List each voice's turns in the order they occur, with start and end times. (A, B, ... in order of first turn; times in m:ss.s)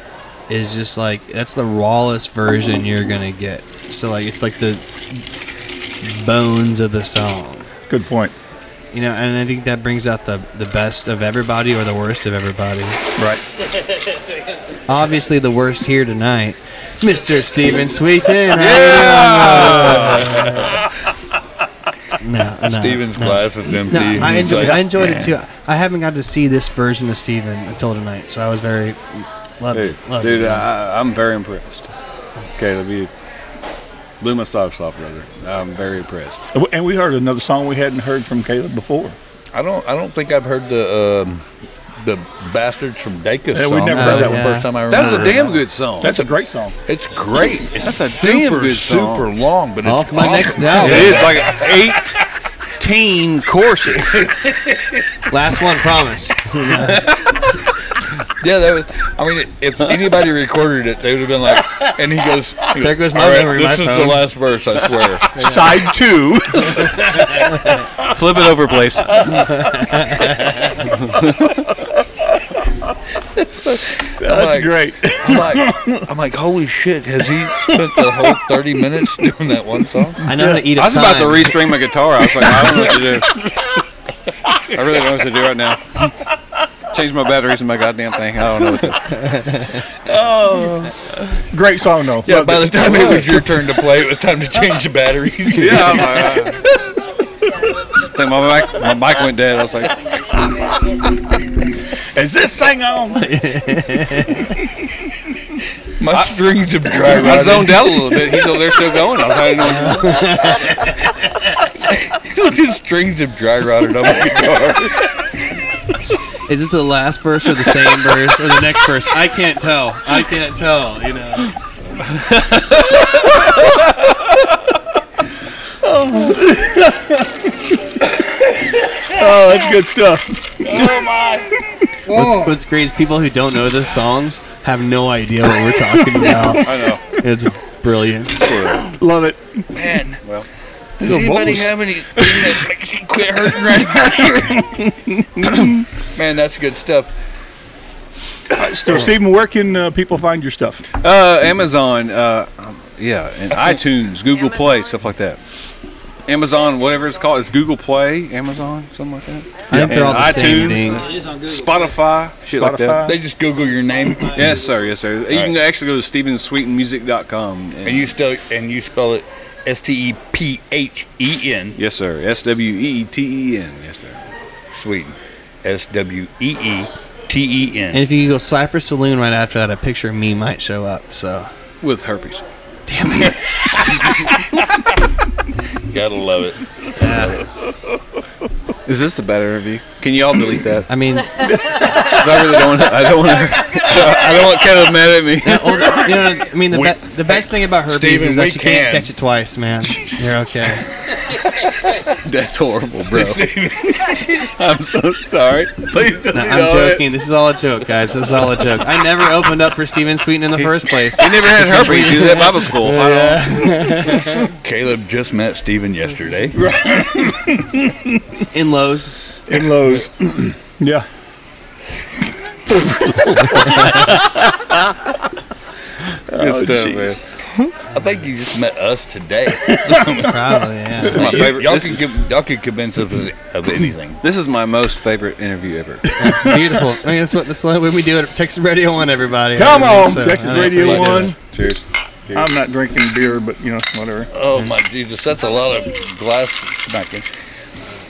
0:00.5-0:05.2 A
0:06.0-0:07.7 A
0:07.9-0:08.3 B
0:08.9-0:13.0 A
0:13.2-0:13.4 B
0:14.9-0:20.7 A
0:18.5-0:20.8 C
0:22.2-0:30.7 A
0:22.6-0:25.3 D
0:29.7-0:31.9 C
0:32.5-0:33.1 C
0:34.2-0:36.4 C
0:36.5-0:39.2 B
0:39.5-0:41.4 D
0:42.0-0:46.3 D
0:43.5-0:44.5 B
0:43.9-0:44.7 A
0:44.9-0:46.1 C
0:46.0-0:46.7 B
0:46.8-0:51.6 D
0:47.8-0:49.3 C
0:49.8-0:51.3 A
0:50.7-0:52.2 C
0:52.8-0:54.5 C
0:55.3-0:57.1 A
0:58.4-1:05.3 D
1:02.8-1:04.2 A
1:05.3-1:07.8 B
1:08.0-1:09.4 C
1:09.2-1:10.5 B
1:09.6-1:10.6 A
1:10.9-1:11.5 C
1:11.7-1:12.0 B
1:13.7-1:16.1 B
1:13.7-1:20.2 D
1:17.6-1:18.3 B
1:20.2-1:20.7 B
1:20.2-1:21.6 A
1:20.6-1:23.4 C
1:24.6-1:26.1 C
1:26.9-1:29.4 C
1:29.2-1:29.8 A
1:30.0-1:33.7 B
1:32.2-1:36.4 D
1:35.5-1:36.6 C
1:38.0-1:40.1 C
1:42.0-1:43.4 B
1:43.2-1:44.6 A
1:46.0-1:48.2 D
1:47.0-1:50.5 C
1:49.9-1:50.7 A
1:51.6-1:55.3 D
1:56.5-2:01.5 A
2:02.3-2:02.8 C
2:05.8-2:08.0 B
2:09.0-2:11.1 B
2:10.6-2:11.5 D
2:11.7-2:12.3 B
2:12.1-2:18.5 A
2:16.1-2:16.5 B
2:16.5-2:17.0 C
2:18.4-2:18.9 C
2:18.8-2:19.7 B
2:19.7-2:20.2 D
2:21.0-2:24.7 D
2:21.0-2:22.6 B
2:24.6-2:25.8 B
2:25.5-2:27.1 D
2:28.5-2:30.8 B
2:31.0-2:35.4 C
2:36.3-2:43.0 C
2:39.7-2:41.1 A
2:39.7-2:40.2 B
2:42.5-2:43.2 B
2:43.0-2:44.6 D
2:44.3-2:48.1 C
2:47.8-2:51.8 D
2:51.8-2:54.2 C
2:54.7-2:58.0 D
2:57.9-3:01.5 A
3:01.8-3:02.4 C
3:02.9-3:03.4 A
3:03.4-3:04.5 D
3:05.9-3:07.4 D
3:07.0-3:07.4 A
3:08.8-3:10.9 C
3:10.9-3:11.5 A
3:11.6-3:16.1 C
3:13.8-3:14.4 D
3:15.4-3:20.9 A
3:16.7-3:19.1 D
3:21.2-3:21.9 D
3:22.2-3:23.5 C
3:23.1-3:24.5 D
3:24.4-3:27.0 C
3:26.3-3:34.5 A
3:30.6-3:33.9 C
3:34.2-3:36.6 D
3:36.6-3:38.2 B
3:38.5-3:39.1 A
3:39.5-3:41.0 B
3:42.7-3:45.0 B
3:46.3-3:47.2 B
3:46.3-3:47.2 C
3:47.9-3:50.4 D
3:49.6-3:50.5 B
3:50.2-3:51.4 A
3:51.0-3:54.2 D
3:51.0-3:52.1 C
3:54.2-3:56.2 C
3:56.2-4:01.3 A
3:56.2-3:56.8 B
3:59.5-4:01.4 B
4:00.6-4:01.2 D
4:01.4-4:02.5 C
4:02.3-4:04.3 B
4:04.3-4:07.2 D